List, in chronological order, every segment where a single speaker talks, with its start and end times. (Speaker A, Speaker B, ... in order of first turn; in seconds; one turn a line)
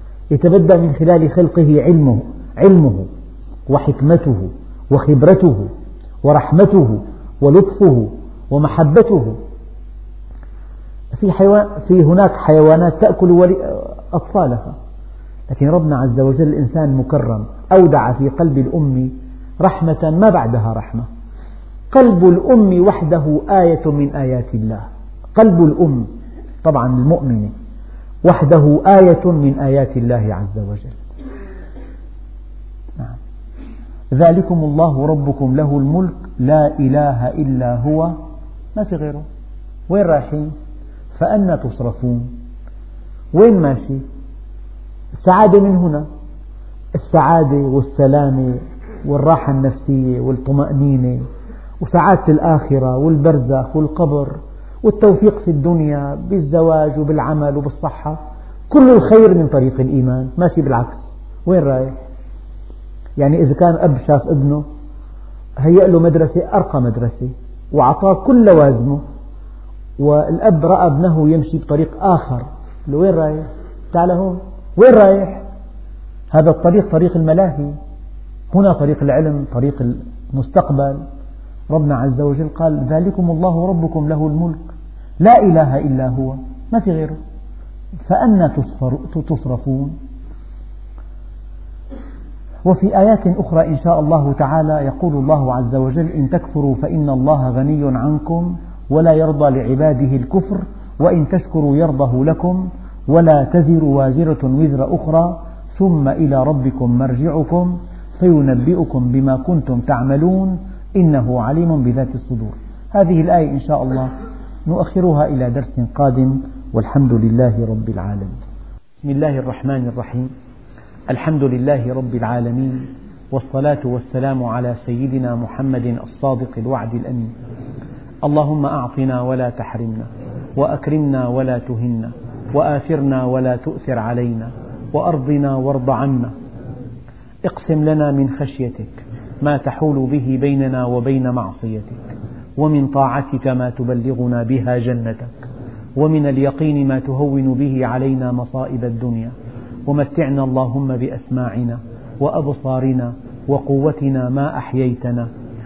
Speaker A: 0.3-3.1
Speaker A: 3.7-5.7
Speaker A: 6.2-9.3
Speaker A: 11.1-14.7
Speaker A: 15.5-21.1
Speaker A: 21.9-26.1
Speaker A: 26.6-27.5
Speaker A: 28.2-31.0
Speaker A: 34.1-38.1
Speaker A: 38.7-39.2
Speaker A: 39.9-40.5
Speaker A: 41.1-42.3
Speaker A: 43.3-44.0
Speaker A: 45.1-46.0
Speaker A: 46.9-51.2
Speaker A: 51.8-58.2
Speaker A: 58.7-61.9
Speaker A: 63.2-64.6
Speaker A: 65.6-69.0
Speaker A: 70.0-75.4
Speaker A: 76.3-77.8
Speaker A: 78.5-81.0
Speaker A: 81.7-84.6
Speaker A: 85.2-87.2
Speaker A: 88.1-90.0
Speaker A: 92.6-114.1
Speaker A: 114.7-118.3
Speaker A: 119.0-120.3
Speaker A: 121.1-127.3
Speaker A: 128.2-136.3
Speaker A: 137.4-142.0
Speaker A: 142.6-145.4
Speaker A: 146.0-149.3
Speaker A: 149.8-155.3